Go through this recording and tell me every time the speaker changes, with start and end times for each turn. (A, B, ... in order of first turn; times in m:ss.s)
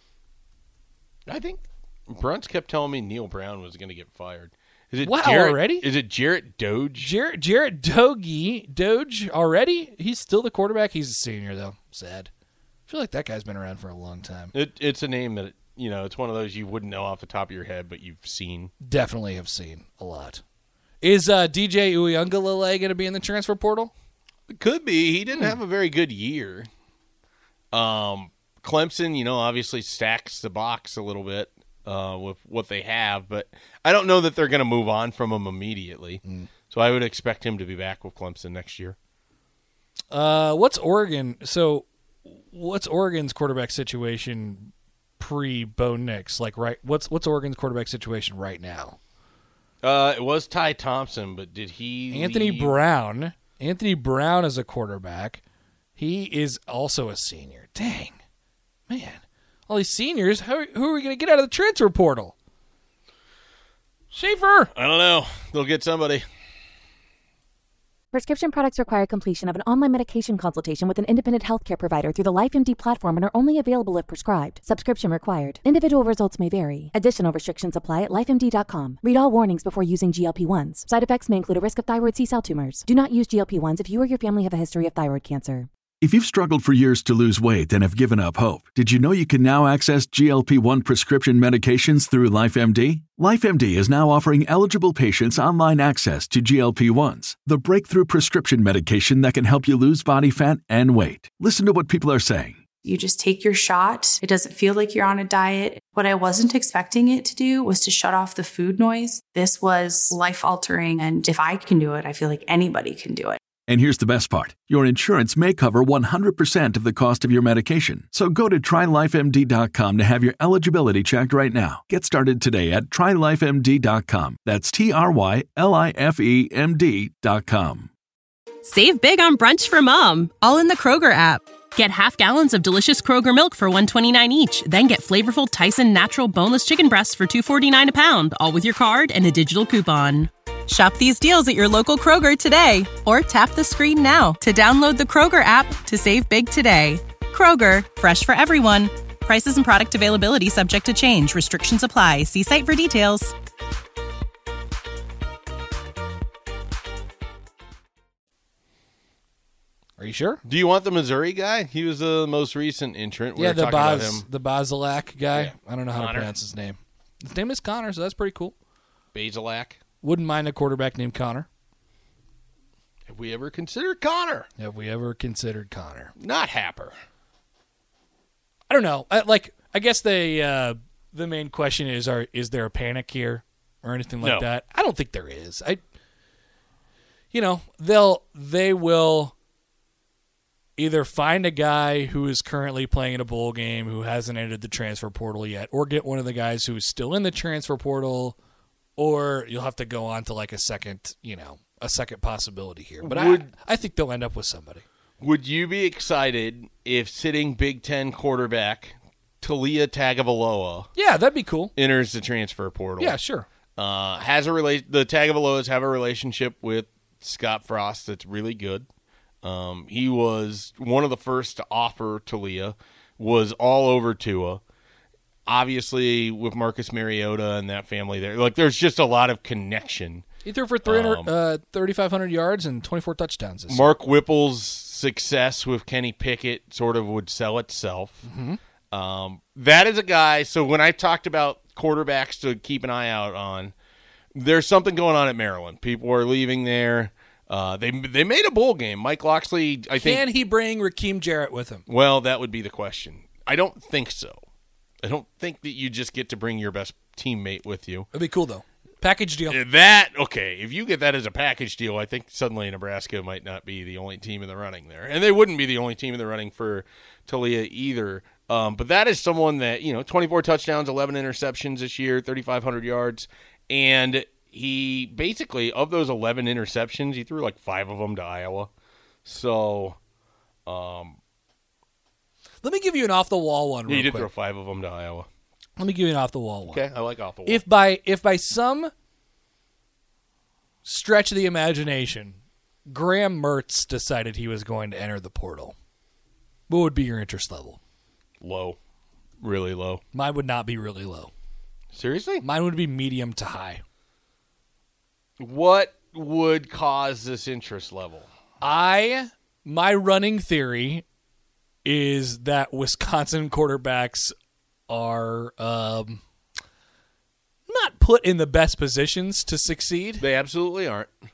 0:01.3-0:07.1 A
0:05.0-0:05.9 B
0:07.0-0:12.3 B
0:12.9-0:14.5 B
0:14.5-0:18.7 A
0:18.8-0:20.4 B
0:21.0-0:23.9 B
0:24.5-0:26.7 A
0:27.7-0:39.0 A
0:36.2-0:36.5 B
0:40.1-0:49.0 B
0:49.8-0:52.8 A
0:52.1-0:55.4 B
0:56.0-0:58.2 B
0:58.9-1:02.3 B
1:04.1-1:04.7 B
1:04.7-1:06.2 A
1:08.1-1:25.6 C
1:26.0-1:42.6 D
1:42.8-1:53.4 E
1:53.7-2:07.9 D
2:08.6-2:33.3 F
2:40.0-2:40.4 B
2:40.5-2:44.2 A
2:43.4-2:48.6 B
2:45.3-2:46.4 A
2:49.1-2:49.8 A
2:50.0-2:51.5 B
2:53.1-2:54.5 A
2:54.6-2:56.1 B
2:56.2-2:57.0 A
2:58.7-3:05.8 B
3:04.2-3:04.5 A
3:07.3-3:09.3 B
3:10.8-3:18.4 B
3:19.0-3:24.8 B
3:23.0-3:23.5 A
3:25.2-3:30.9 A
3:31.0-3:31.7 B
3:31.8-3:33.2 A
3:33.0-3:33.5 B
3:33.8-3:38.9 A
3:39.4-3:44.6 A
3:45.5-3:50.2 A
3:50.4-3:54.0 B
3:50.8-3:51.3 A
3:53.7-3:58.2 A
3:58.2-3:58.6 B
3:58.9-4:03.7 A
4:04.4-4:10.2 A
4:09.9-4:11.8 B
4:11.9-4:14.4 A
4:15.0-4:18.1 A
4:18.1-4:19.6 B
4:19.5-4:38.7 A
4:39.2-4:40.0 A
4:40.6-4:41.2 A
4:42.6-4:44.3 B
4:43.9-4:45.3 A
4:45.8-4:46.8 B
4:46.7-4:47.6 A
4:47.4-4:48.9 B
4:50.8-4:55.8 B
4:56.7-4:57.8 B
4:58.4-4:58.8 A
4:59.4-5:00.0 A
5:00.1-5:01.3 B
5:01.9-5:02.4 A
5:02.4-5:03.8 B
5:05.4-5:08.3 A
5:08.6-5:11.0 B
5:11.8-5:14.3 B
5:14.9-5:16.2 B
5:17.7-5:20.2 B
5:20.2-5:21.1 A